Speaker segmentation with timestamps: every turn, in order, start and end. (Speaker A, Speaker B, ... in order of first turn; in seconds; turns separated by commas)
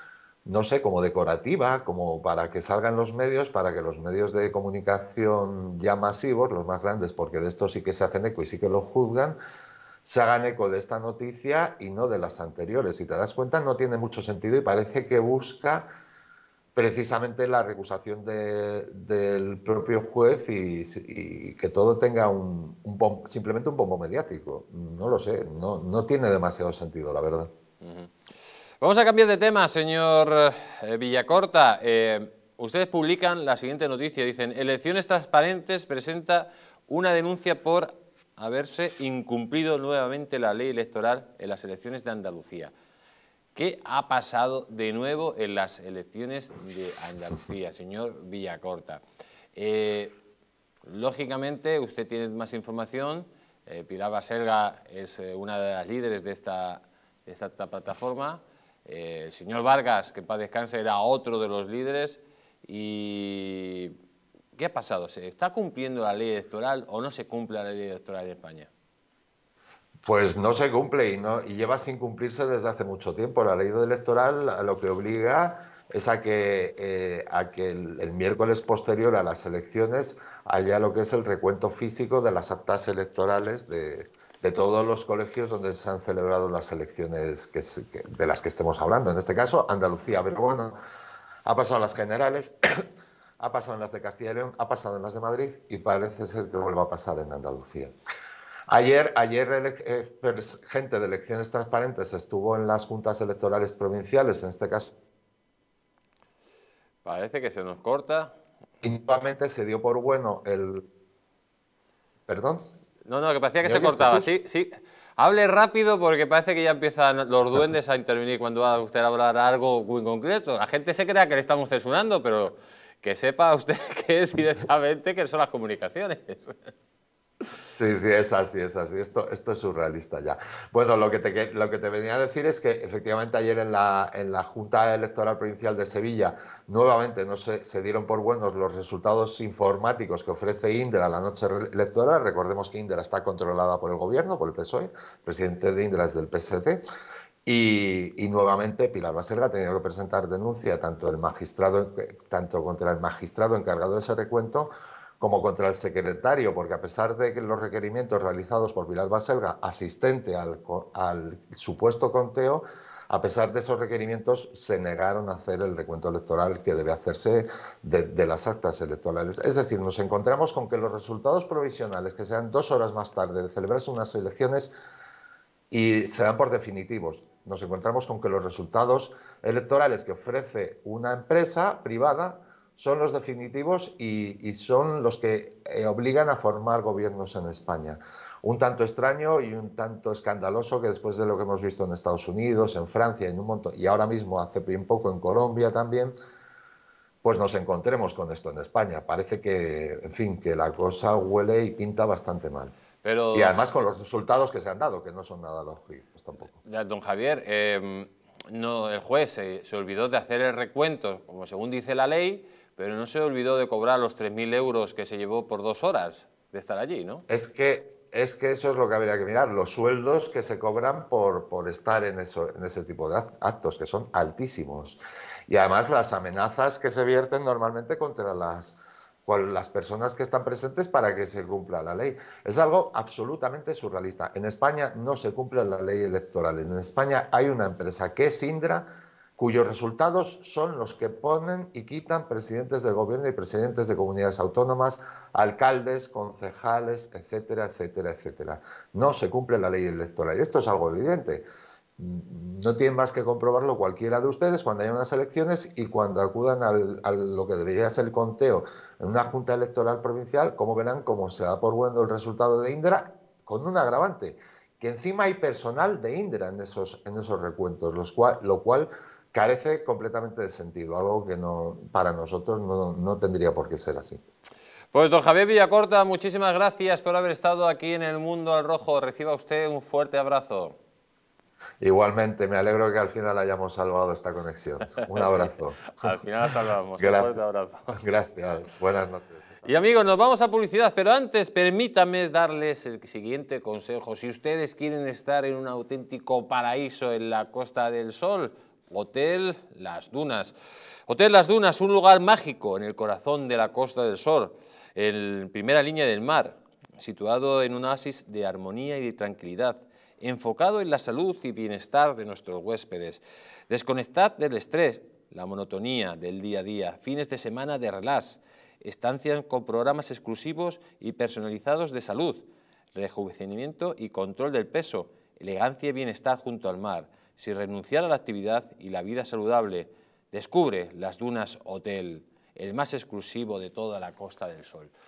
Speaker A: 0.4-9.4, Speaker A: 10.0-15.9, Speaker A: 16.7-27.5, Speaker B: 27.8-28.1, Speaker B: 28.8-42.7, Speaker B: 43.5-49.0, Speaker B: 49.5-50.2, Speaker B: 50.9-64.0, Speaker B: 64.5-68.7, Speaker A: 70.0-90.8, Speaker A: 91.5-92.8, Speaker A: 93.4-97.9, Speaker A: 98.7-104.9, Speaker B: 107.0-108.3, Speaker A: 108.8-110.8, Speaker A: 112.3-112.6, Speaker B: 113.0-126.7, Speaker A: 113.6-114.3, Speaker A: 127.7-146.8, Speaker A: 147.4-174.7, Speaker A: 175.7-196.1, Speaker A: 197.2-202.7, Speaker B: 203.0-203.6, Speaker A: 203.3-206.6, Speaker B: 206.6-217.2, Speaker A: 217.3-238.9, Speaker A: 239.4-251.4, Speaker A: 252.0-274.2, Speaker B: 274.9-280.8, Speaker A: 281.8-286.1, Speaker B: 285.1-288.0, Speaker A: 287.0-287.4, Speaker A: 287.9-289.7, Speaker B: 289.6-300.5, Speaker B: 301.1-322.4, Speaker B: 322.9-334.9